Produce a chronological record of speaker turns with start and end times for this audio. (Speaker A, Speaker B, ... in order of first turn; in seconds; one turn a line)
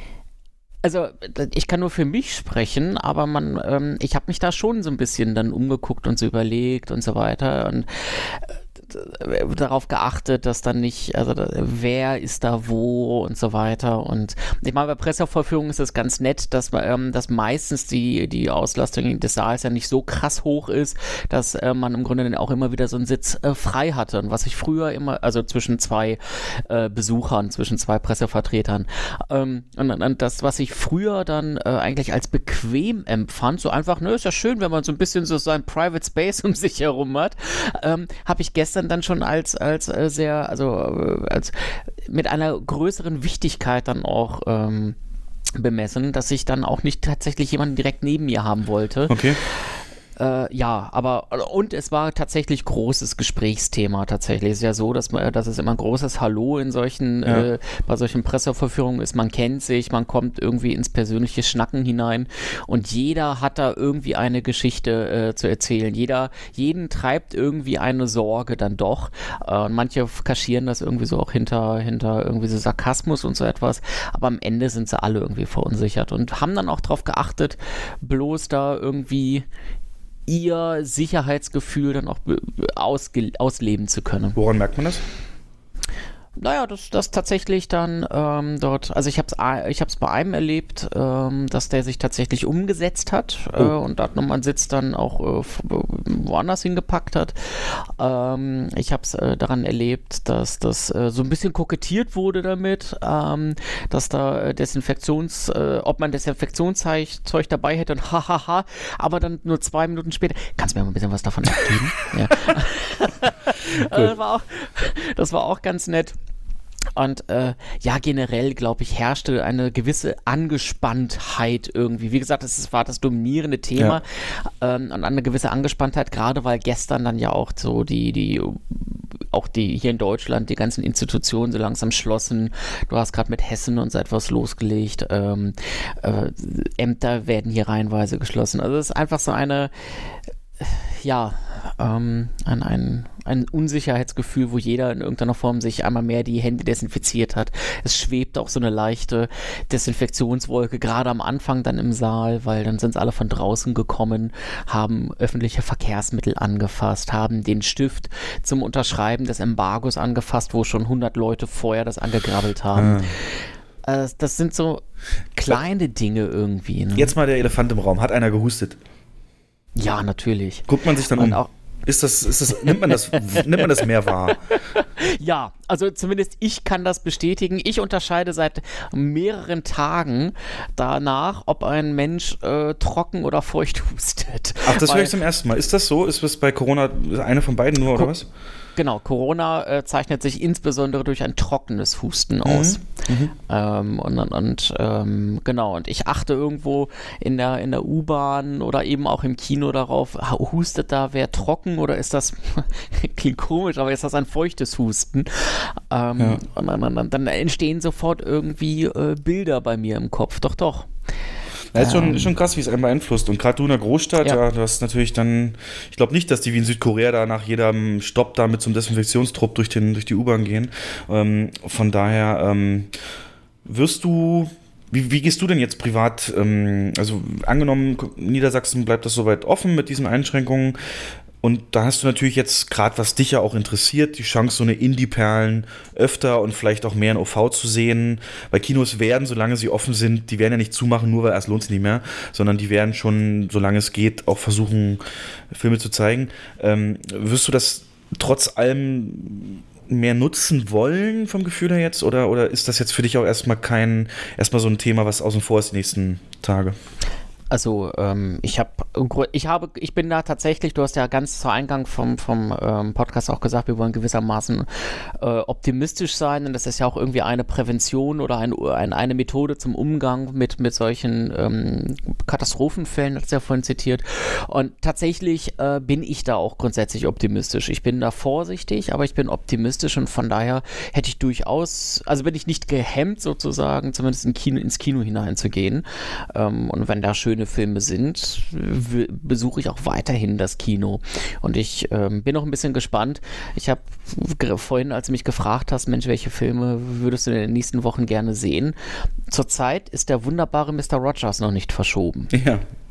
Speaker A: 0.8-45.0
Speaker A: 45.5-49.6
Speaker B: 49.1-49.4
Speaker A: 50.2-79.5
Speaker A: 80.3-84.4
Speaker B: 84.3-85.0
Speaker A: 86.4-116.2
Speaker B: 113.8-114.1
Speaker A: 117.0-128.8
Speaker A: 129.3-139.7
Speaker A: 140.6-163.0
Speaker B: 162.8-163.2
Speaker A: 163.8-164.8
Speaker A: 165.3-167.2
Speaker B: 166.9-168.8
Speaker A: 169.8-171.5
Speaker B: 170.7-174.4
Speaker A: 172.7-173.8
Speaker A: 174.8-185.2
Speaker B: 184.6-188.3
Speaker A: 188.8-192.8
Speaker B: 192.4-193.3
Speaker A: 193.5-210.9
Speaker B: 211.7-222.9
Speaker A: 211.8-212.3
Speaker B: 223.7-230.8
Speaker B: 231.4-256.8
Speaker A: 257.5-264.7
Speaker A: 265.2-298.8
Speaker A: 299.3-302.3
Speaker B: 302.3-302.6